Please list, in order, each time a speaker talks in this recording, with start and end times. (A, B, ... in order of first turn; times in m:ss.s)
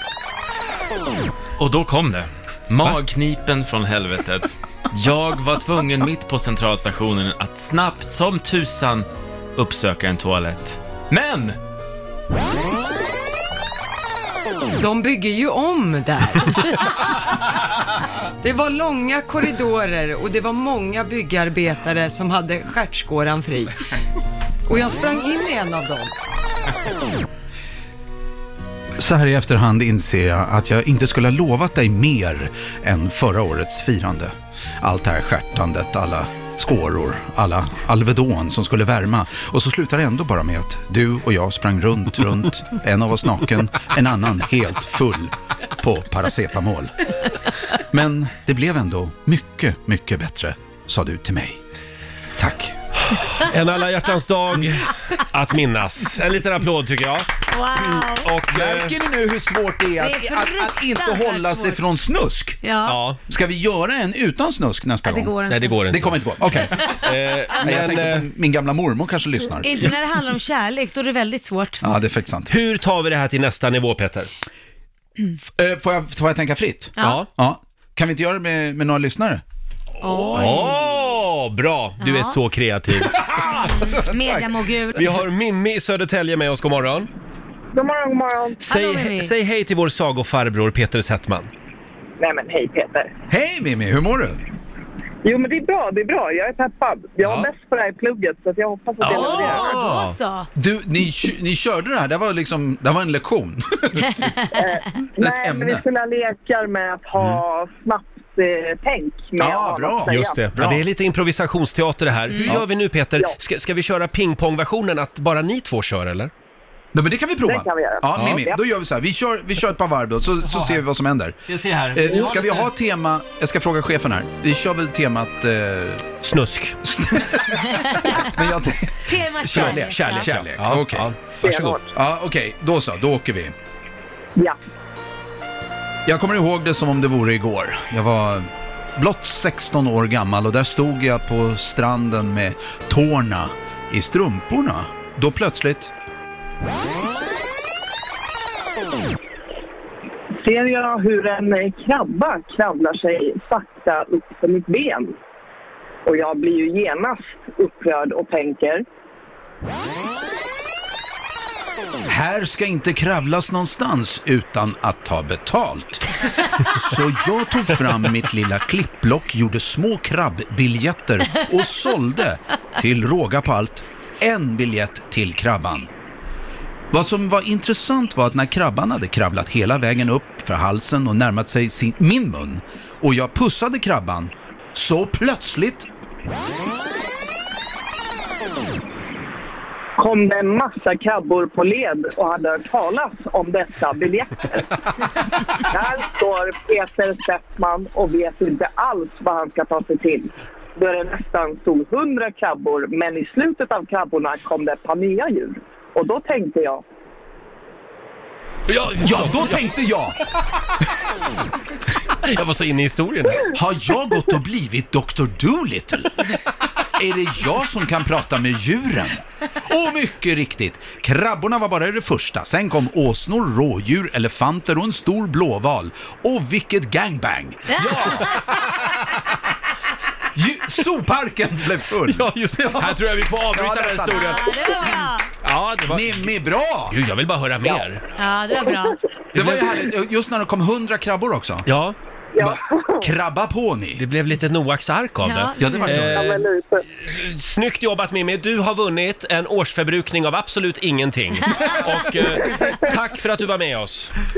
0:01.6-0:11.6 A
0:14.8-0:17.2 B
0:18.4-0:23.8 B
0:24.7-0:26.1 B
0:29.0-0:47.0 C
0:47.7-0:51.6 C
0:52.4-0:52.7 C
0:53.1-0:58.9 D
0:57.5-0:58.3 E
0:58.5-1:02.6 C
1:00.0-1:01.8 E
1:02.6-1:03.0 E
1:02.9-1:03.2 D
1:03.3-1:10.0 C
1:05.0-1:05.8 E
1:05.5-1:08.2 D
1:09.6-1:11.8 E
1:11.8-1:12.5 C
1:12.5-1:14.3 D
1:15.4-1:19.4 C
1:17.0-1:17.2 E
1:17.0-1:17.3 D
1:20.0-1:20.7 E
1:20.3-1:23.2 D
1:22.0-1:22.4 E
1:23.0-1:24.5 C
1:23.6-1:25.1 E
1:25.0-1:27.1 D
1:27.7-1:28.6 F
1:28.6-1:31.5 D
1:28.7-1:29.3 E
1:32.2-1:33.1 F
1:33.3-1:34.4 C
1:35.2-1:39.8 F
1:39.0-1:40.2 D
1:39.1-1:40.5 E
1:39.3-1:39.7 C
1:40.6-1:44.4 C
1:44.2-1:44.6 E
1:44.5-1:50.4 F
1:45.2-1:45.8 C
1:49.4-1:50.8 C
1:50.1-1:56.3 D
1:52.3-1:52.6 E
1:56.9-2:01.4 C
1:57.4-1:58.6 F
1:58.1-1:58.4 D
2:00.5-2:00.8 D
2:01.5-2:02.7 D
2:01.9-2:06.1 C
2:06.2-2:06.8 D
2:06.8-2:11.1 C
2:07.9-2:08.2 E
2:09.0-2:10.3 E
2:09.5-2:11.8 D
2:11.4-2:11.9 F
2:11.9-2:13.5 C
2:16.1-2:25.9 C
2:30.4-2:35.2 F
2:36.0-2:38.8 F
2:42.1-2:46.1 C
2:46.6-2:55.9 C
2:56.9-3:05.9 C
3:10.0-3:26.8 F
3:28.7-3:29.6 D
3:28.7-3:30.2 C
3:32.1-3:33.5 D
3:33.4-3:36.2 C
3:36.9-3:48.5 C
3:48.2-3:49.1 D
3:50.3-3:54.5 C
3:52.1-3:54.4 D
3:54.1-3:55.3 E
3:55.4-3:56.3 D
3:55.9-3:57.0 C
3:56.9-3:58.0 D
3:58.2-3:59.0 E
3:59.3-3:59.6 D
3:59.3-4:01.7 C
4:01.7-4:02.0 D
4:02.4-4:03.1 F
4:02.4-4:04.0 C
4:04.0-4:14.1 D
4:05.2-4:06.0 E
4:05.6-4:06.3 C
4:06.1-4:06.8 F